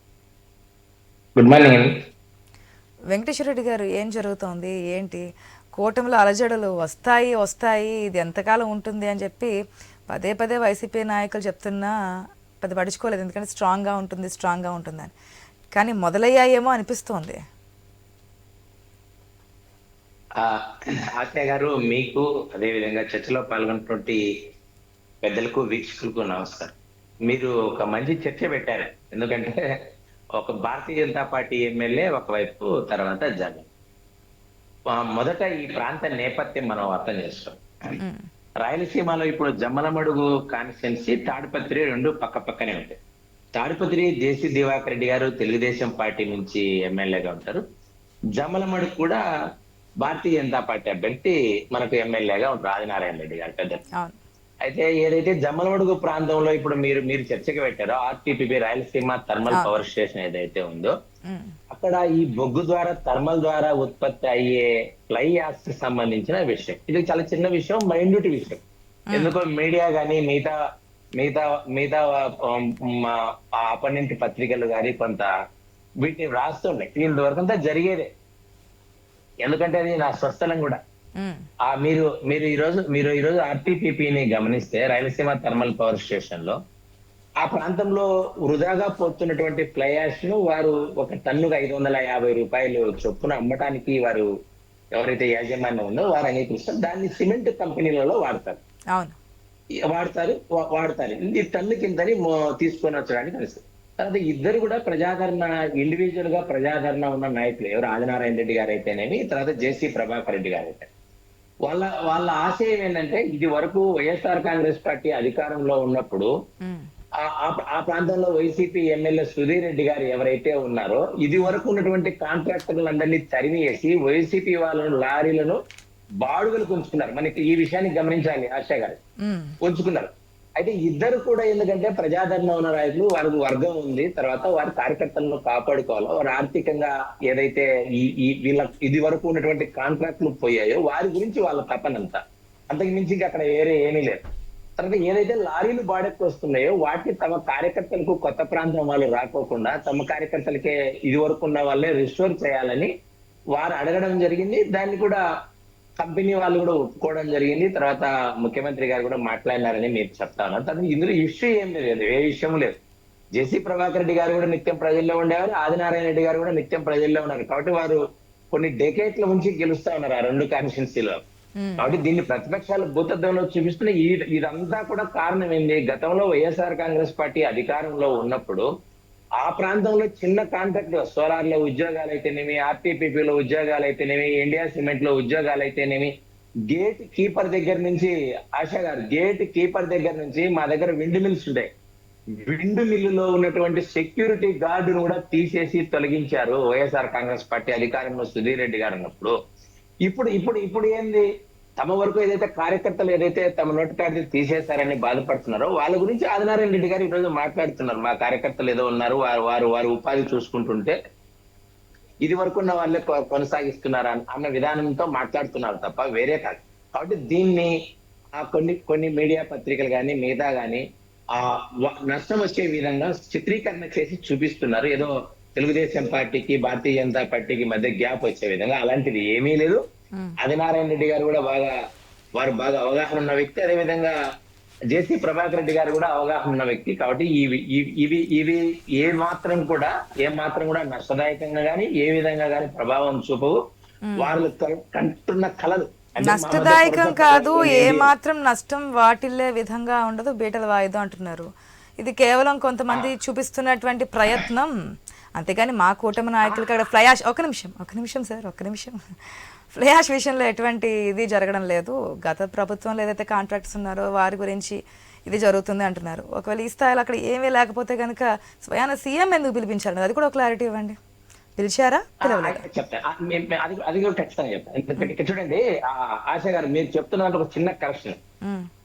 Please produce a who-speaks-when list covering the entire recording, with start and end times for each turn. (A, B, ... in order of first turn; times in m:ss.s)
0:01.4-0:01.9 A
0:03.1-0:05.2 B
0:05.8-0:09.5 B
0:10.1-0:11.9 B
0:12.6-0:15.1 B
0:15.7-0:17.4 B
0:21.2-0:24.2 A
0:25.2-0:26.7 A
0:27.3-0:29.6 A
0:30.4-0:33.7 A
0:34.9-0:37.6 A
0:38.6-0:43.0 A
0:43.5-0:47.6 A
0:48.4-0:49.2 A
0:50.0-0:53.8 A
0:54.6-1:00.9 A
1:01.3-1:01.5 B
1:01.7-1:08.6 A
1:09.1-1:10.5 A
1:11.2-1:15.3 A
1:16.0-1:18.1 A
1:19.4-1:20.8 A
1:21.6-1:26.6 A
1:27.4-1:34.3 A
1:35.0-1:38.6 A
1:39.9-1:50.9 A
1:51.6-1:56.3 A
1:57.2-2:05.6 A
2:06.2-2:09.0 A
2:09.2-2:09.5 B
2:09.6-2:24.2 A
2:24.8-2:32.9 A
2:33.5-2:35.2 A
2:36.0-2:42.7 A
2:43.4-2:51.2 A
2:51.6-2:51.8 B
2:51.8-2:58.6 A
2:59.4-3:06.1 A
3:06.7-3:11.7 A
3:12.5-3:19.4 A
3:20.0-3:21.3 A
3:21.8-3:30.9 A
3:32.2-3:37.7 A
3:38.4-3:40.8 A
3:41.3-3:49.8 A
3:50.4-3:51.7 A
3:52.4-3:54.1 A
3:54.9-4:03.6 A
4:04.0-4:04.3 B
4:04.2-4:08.1 A
4:06.2-4:11.5 B
4:12.0-4:14.7 B
4:15.4-4:19.0 B
4:19.7-4:31.0 B
4:31.6-4:32.6 B
4:32.2-4:38.2 A